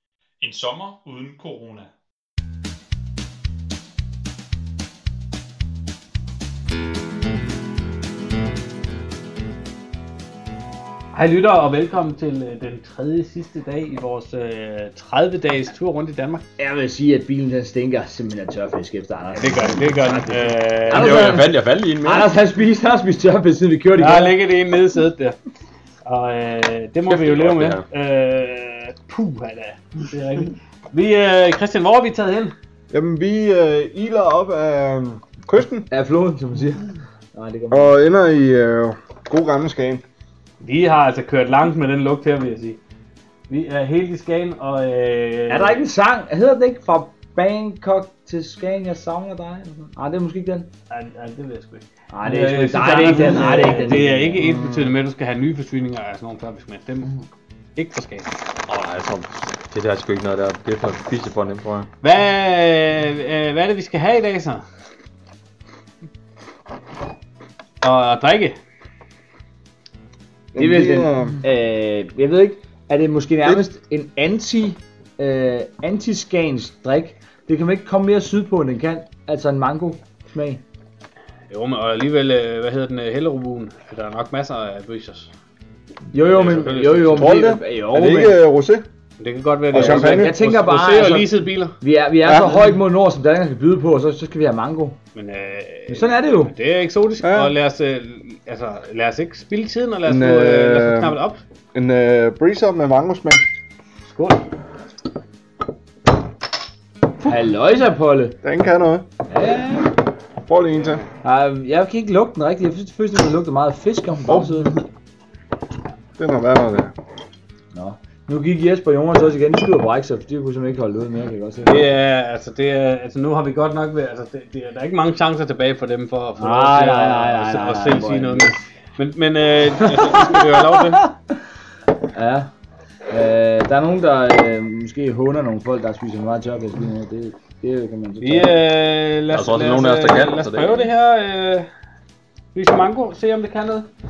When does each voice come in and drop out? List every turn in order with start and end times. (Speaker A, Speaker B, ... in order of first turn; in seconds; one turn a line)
Speaker A: 11.1-16.4
Speaker B: 16.6-24.4
Speaker A: 19.3-21.4
Speaker C: 20.9-22.3
Speaker A: 23.9-25.4
Speaker A: 26.0-32.5
Speaker C: 27.1-27.8
Speaker D: 32.9-35.9
Speaker B: 35.9-38.0
Speaker D: 37.7-40.0
Speaker A: 40.6-42.8
Speaker A: 43.5-45.8
Speaker B: 45.5-50.7
Speaker A: 50.9-57.2
Speaker B: 52.1-54.5
Speaker D: 54.4-54.9
Speaker A: 57.7-58.3
Speaker C: 58.7-61.9
Speaker A: 62.0-64.6
Speaker A: 67.8-68.6
Speaker B: 70.5-80.6
Speaker D: 70.5-71.4
Speaker A: 81.5-85.3
Speaker B: 86.1-88.4
Speaker A: 86.2-87.4
Speaker D: 87.1-88.9
Speaker A: 89.2-91.8
Speaker D: 89.7-90.3
Speaker B: 89.7-95.0
Speaker D: 92.2-92.7
Speaker A: 95.1-101.4
Speaker B: 95.9-96.5
Speaker D: 97.2-97.5
Speaker D: 100.0-101.2
Speaker D: 101.7-103.4
Speaker A: 104.0-104.5
Speaker B: 107.2-108.4
Speaker D: 108.4-109.1
Speaker B: 109.3-110.0
Speaker D: 110.4-111.0
Speaker B: 111.2-114.8
Speaker D: 114.3-114.8
Speaker D: 116.2-116.9
Speaker B: 117.7-121.8
Speaker A: 121.6-131.1
Speaker B: 126.4-128.6
Speaker B: 129.9-131.1
Speaker B: 132.1-132.5
Speaker B: 133.1-138.6
Speaker A: 138.2-141.7
Speaker C: 139.3-140.9
Speaker A: 142.5-143.9